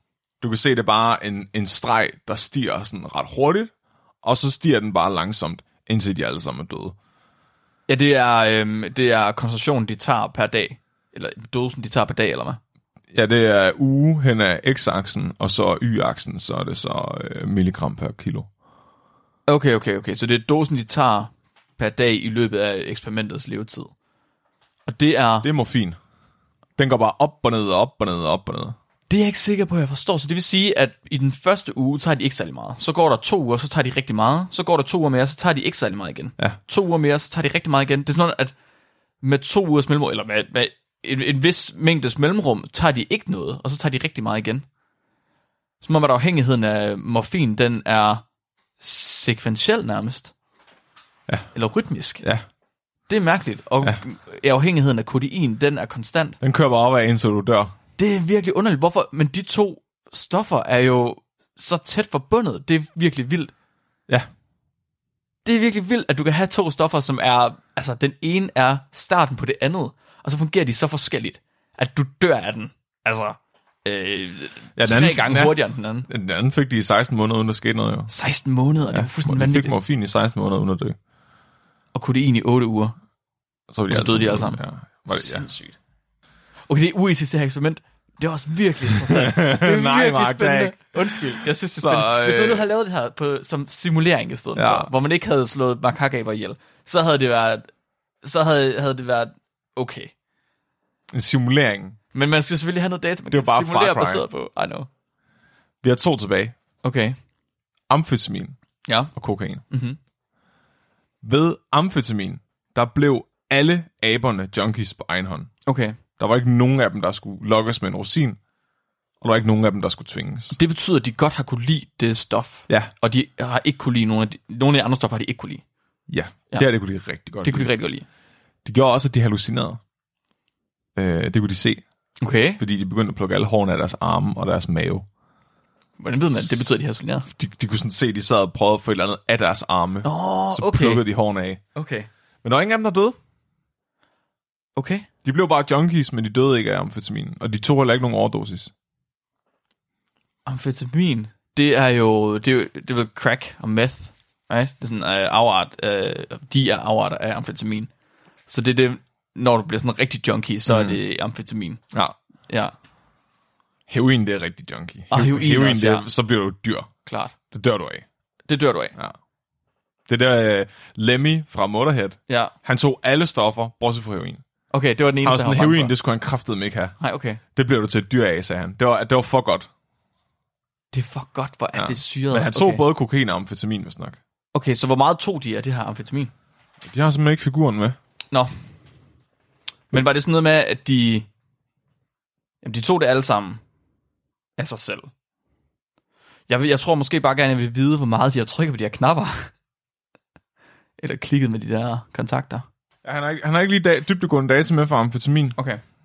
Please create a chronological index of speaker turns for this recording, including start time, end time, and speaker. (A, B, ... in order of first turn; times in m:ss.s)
0:00.4-0:03.7 A
0:04.2-0:07.0 A
0:07.9-0:12.6 B
0:13.1-0:18.5 A
0:19.5-0:23.9 B
0:24.9-0:25.5 B
0:25.4-0:26.0 A
0:26.8-0:28.8 A
0:29.1-0:38.5 B
0:39.2-0:44.6 B
0:45.8-0:48.2 B
0:48.8-0:50.3 B
0:51.5-0:52.2 B
0:53.1-0:56.4 B
0:56.4-0:57.7 A
0:58.0-1:03.5 B
1:05.4-1:16.1 B
1:14.8-1:18.1 A
1:18.1-1:19.8 B
1:18.9-1:21.0 A
1:21.9-1:23.0 B
1:23.7-1:25.5 A
1:23.9-1:25.8 B
1:26.7-1:37.7 B
1:29.1-1:31.2 A
1:31.7-1:32.6 A
1:34.6-1:34.9 A
1:38.2-1:40.1 B
1:41.1-1:42.0 A
1:42.1-1:44.9 B
1:43.3-1:44.2 A
1:45.8-1:46.6 A
1:46.8-1:47.2 B
1:47.9-1:48.6 A
1:48.9-1:49.1 B
1:49.2-1:49.6 A
1:49.7-1:50.0 B
1:51.2-1:55.5 A
1:55.7-1:56.0 B
1:56.2-1:58.4 A
1:59.2-2:00.6 A
2:00.5-2:05.6 B
2:06.1-2:07.7 A
2:07.4-2:08.0 B
2:08.6-2:09.8 A
2:11.0-2:11.8 A
2:12.2-2:12.6 B
2:12.6-2:15.1 A
2:16.0-2:17.3 B
2:16.4-2:16.7 A
2:17.3-2:21.6 A
2:20.0-2:21.0 B
2:21.8-2:22.1 B
2:22.4-2:23.2 A
2:24.8-2:25.1 B
2:25.2-2:28.7 A
2:30.5-2:37.9 B
2:38.5-2:41.8 B
2:40.7-2:41.0 A
2:42.5-2:42.7 B
2:43.9-2:46.9 A
2:45.1-2:46.1 B
2:47.1-2:47.4 B
2:47.5-2:48.0 A
2:48.5-2:48.9 B
2:50.1-2:54.4 A
2:54.7-2:55.9 B
2:55.2-2:56.9 A
2:57.0-2:57.4 B
2:57.6-2:59.7 A
3:00.9-3:02.8 B
3:01.8-3:04.2 A
3:04.5-3:06.3 B
3:06.9-3:08.0 A
3:09.9-3:11.3 B
3:12.6-3:13.6 B
3:14.6-3:15.1 B
3:16.5-3:19.5 B
3:21.0-3:22.6 B
3:23.0-3:25.6 A